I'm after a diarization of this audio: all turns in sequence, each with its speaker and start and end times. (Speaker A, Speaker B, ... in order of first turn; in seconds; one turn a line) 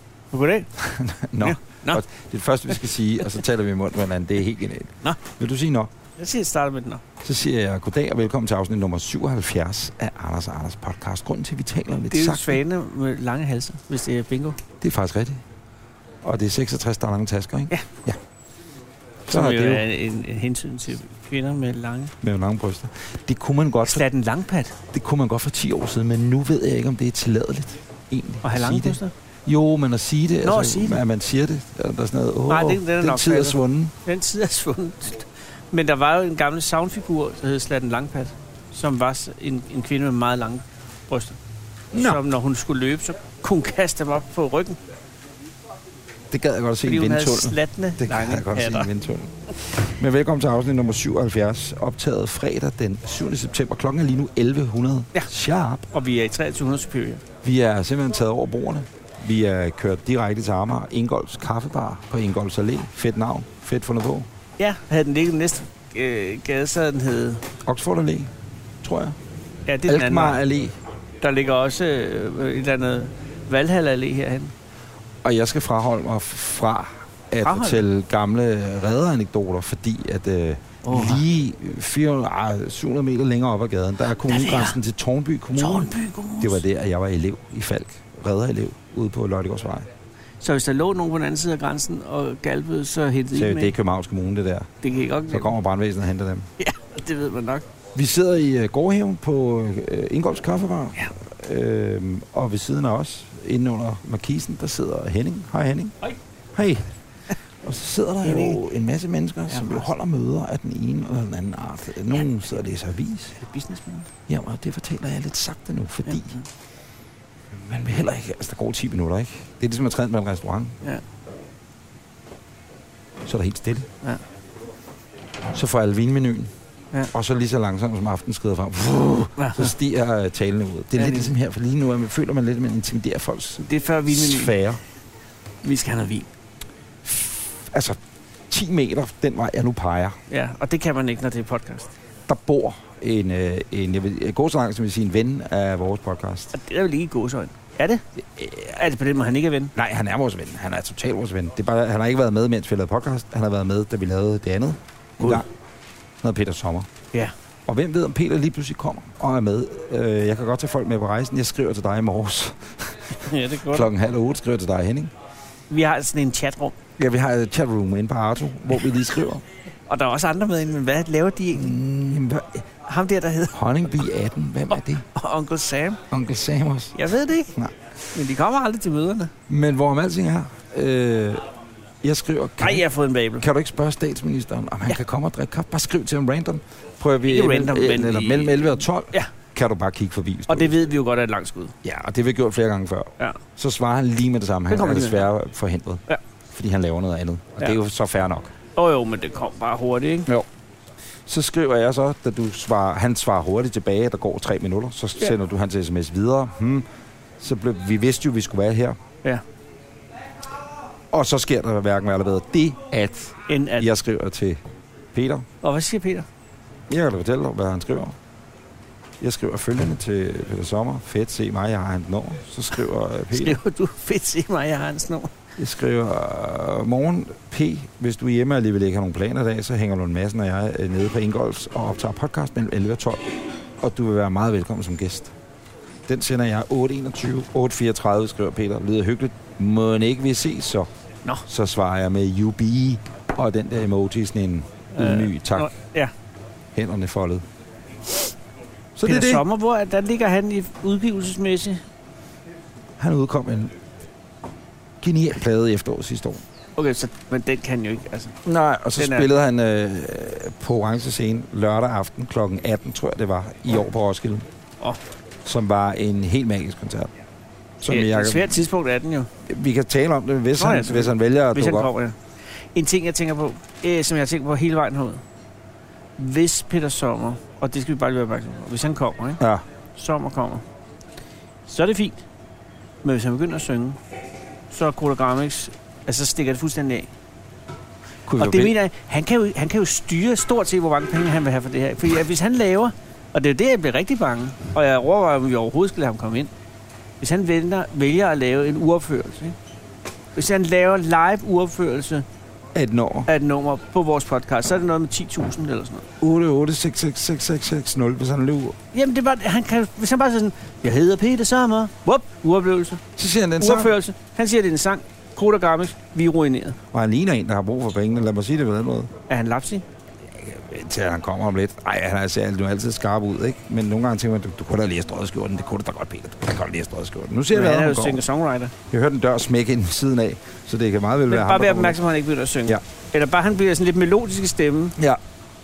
Speaker A: 0.3-0.7
Speaker B: 0.8-5.9
Speaker A: 1.4-2.0
Speaker A: 6.2-7.0
Speaker B: 7.2-12.6
Speaker A: 12.1-14.6
Speaker B: 14.8-15.4
Speaker B: 16.2-18.2
Speaker B: 19.2-19.9
Speaker A: 19.3-22.1
Speaker B: 22.2-24.1
Speaker A: 23.9-24.8
Speaker B: 24.9-33.9
Speaker A: 28.4-29.1
Speaker A: 30.4-31.0
Speaker A: 32.5-41.4
Speaker B: 41.9-42.2
Speaker A: 41.9-44.8
Speaker B: 46.3-55.9
Speaker A: 46.8-48.9
Speaker A: 55.9-57.2
Speaker B: 57.4-64.3
Speaker A: 64.6-67.4
Speaker B: 67.6-68.3
Speaker B: 68.8-69.2
Speaker A: 69.7-70.4
Speaker B: 69.8-70.8
Speaker A: 71.2-74.5
Speaker B: 75.2-89.9
Speaker A: 77.4-77.8
Speaker A: 80.8-81.2
Speaker A: 84.3-84.8
Speaker A: 85.5-86.6
Speaker A: 90.4-93.7
Speaker B: 93.3-94.7
Speaker A: 94.8-95.5
Speaker B: 95.3-96.5
Speaker A: 96.6-97.7
Speaker B: 97.9-105.9
Speaker B: 106.5-106.9
Speaker B: 107.6-113.3
Speaker A: 108.2-108.6
Speaker A: 109.5-109.8
Speaker A: 113.4-114.1
Speaker B: 114.3-116.4
Speaker A: 116.1-116.4
Speaker B: 117.5-120.8
Speaker B: 123.2-123.9
Speaker B: 125.5-126.5
Speaker B: 127.1-134.8
Speaker A: 129.4-129.7
Speaker A: 131.0-131.3
Speaker A: 133.6-134.5
Speaker A: 135.6-136.3
Speaker B: 137.0-138.0
Speaker B: 138.5-140.2
Speaker A: 140.3-141.9
Speaker B: 142.3-146.5
Speaker A: 146.5-148.0
Speaker B: 148.2-148.8
Speaker A: 148.7-149.7
Speaker B: 149.7-155.5
Speaker B: 156.2-156.9
Speaker B: 157.7-165.1
Speaker A: 163.2-163.9
Speaker A: 165.7-166.7
Speaker B: 167.0-169.4
Speaker A: 169.9-171.7
Speaker B: 171.5-172.7
Speaker A: 172.8-173.5
Speaker B: 173.5-175.0
Speaker A: 175.1-176.0
Speaker B: 176.1-176.9
Speaker A: 176.9-177.5
Speaker A: 178.1-179.3
Speaker B: 179.5-181.4
Speaker B: 182.0-182.8
Speaker A: 182.6-183.4
Speaker B: 183.4-190.7
Speaker A: 187.2-189.3
Speaker A: 190.5-191.7
Speaker B: 191.8-198.5
Speaker A: 194.7-195.2
Speaker A: 198.7-200.3
Speaker B: 201.2-206.8
Speaker B: 207.4-209.0
Speaker B: 211.1-214.6
Speaker A: 213.5-213.9
Speaker B: 215.1-215.4
Speaker A: 215.6-216.3
Speaker B: 216.9-218.2
Speaker B: 219.2-223.6
Speaker A: 223.3-225.3
Speaker B: 225.6-235.3
Speaker B: 236.1-240.9
Speaker B: 241.5-245.7
Speaker A: 244.9-246.1
Speaker B: 246.7-247.4
Speaker B: 248.9-249.4
Speaker A: 249.0-251.8
Speaker B: 253.0-253.7
Speaker B: 255.0-256.4
Speaker A: 256.8-258.3
Speaker B: 258.4-264.4
Speaker A: 259.0-259.3
Speaker B: 265.4-267.1
Speaker B: 267.8-268.6
Speaker A: 267.9-269.3
Speaker B: 269.4-271.9
Speaker A: 270.6-272.1
Speaker A: 272.7-275.2
Speaker A: 276.2-279.4
Speaker A: 279.9-280.6
Speaker A: 281.7-282.2
Speaker A: 283.0-284.0
Speaker A: 284.7-287.1
Speaker B: 288.2-288.8
Speaker A: 288.4-296.5
Speaker A: 297.2-299.6
Speaker A: 300.3-302.2
Speaker B: 302.7-303.3
Speaker A: 303.3-306.1
Speaker B: 306.2-308.8
Speaker A: 308.9-313.0
Speaker B: 313.2-313.9
Speaker A: 313.6-316.8
Speaker B: 316.9-319.1
Speaker A: 319.3-319.8
Speaker B: 320.2-328.2
Speaker A: 327.5-328.7
Speaker B: 328.9-332.0
Speaker A: 331.3-335.0